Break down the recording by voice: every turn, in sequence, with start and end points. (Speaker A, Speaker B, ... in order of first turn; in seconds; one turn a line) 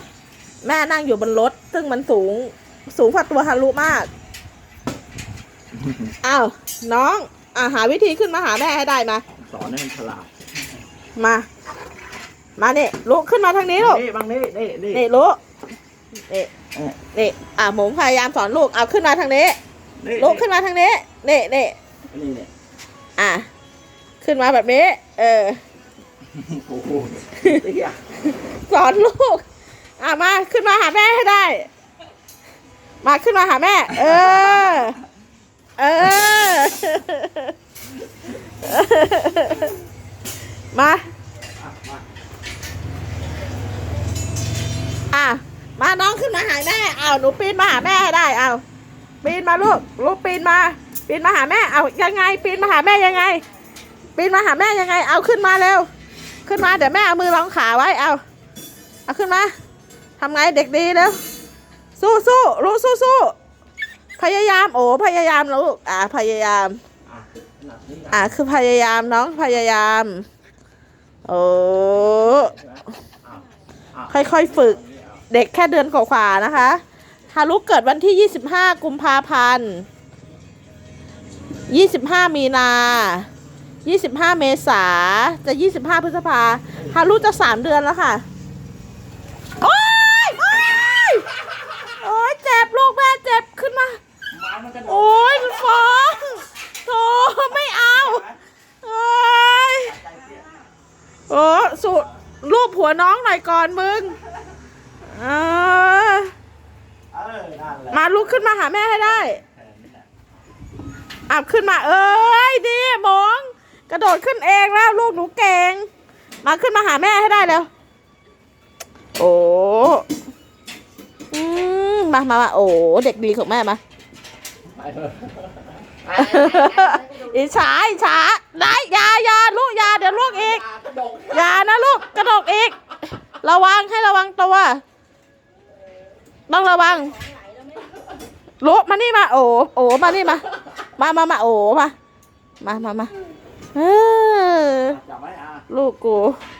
Speaker A: 0.6-4.1
Speaker B: 5.8-6.1
Speaker A: 6.2-9.2
Speaker B: 9.4-10.3
Speaker A: 11.2-11.5
Speaker A: 12.6-14.0
Speaker B: 13.8-15.0
Speaker A: 14.9-15.4
Speaker A: 16.3-19.6
Speaker B: 20.0-20.5
Speaker A: 20.2-21.8
Speaker B: 22.1-22.5
Speaker A: 23.2-23.5
Speaker A: 24.2-25.6
Speaker B: 26.3-28.1
Speaker A: 27.4-27.6
Speaker A: 28.4-29.4
Speaker A: 30.0-31.7
Speaker A: 33.0-35.0
Speaker B: 34.1-34.6
Speaker A: 35.8-37.5
Speaker A: 38.3-39.7
Speaker A: 40.7-41.0
Speaker B: 41.6-42.0
Speaker A: 45.1-48.6
Speaker A: 49.2-53.4
Speaker A: 54.2-55.9
Speaker A: 56.5-58.2
Speaker A: 59.1-59.5
Speaker A: 60.2-61.2
Speaker A: 62.0-63.3
Speaker A: 64.2-66.8
Speaker B: 67.1-68.4
Speaker A: 68.1-70.2
Speaker A: 71.2-72.5
Speaker B: 71.9-75.2
Speaker A: 74.1-74.8
Speaker A: 75.3-79.9
Speaker A: 81.7-83.3
Speaker A: 83.8-88.2
Speaker B: 86.8-87.2
Speaker A: 89.6-94.0
Speaker B: 94.3-95.6
Speaker A: 94.9-98.2
Speaker B: 97.6-98.4
Speaker A: 98.8-99.9
Speaker B: 99.8-100.6
Speaker A: 101.3-104.2
Speaker A: 105.1-106.3
Speaker B: 107.1-108.5
Speaker A: 107.9-109.4
Speaker B: 109.2-110.1
Speaker A: 111.3-115.9
Speaker A: 116.4-117.7
Speaker A: 119.2-120.1
Speaker A: 121.3-123.8
Speaker B: 124.8-125.4
Speaker B: 126.1-127.0
Speaker A: 126.1-130.7
Speaker B: 130.3-131.5
Speaker A: 131.3-134.8
Speaker A: 136.5-137.3
Speaker A: 138.6-141.9
Speaker A: 142.6-143.1
Speaker A: 143.8-145.0
Speaker B: 144.9-145.7
Speaker A: 145.7-146.4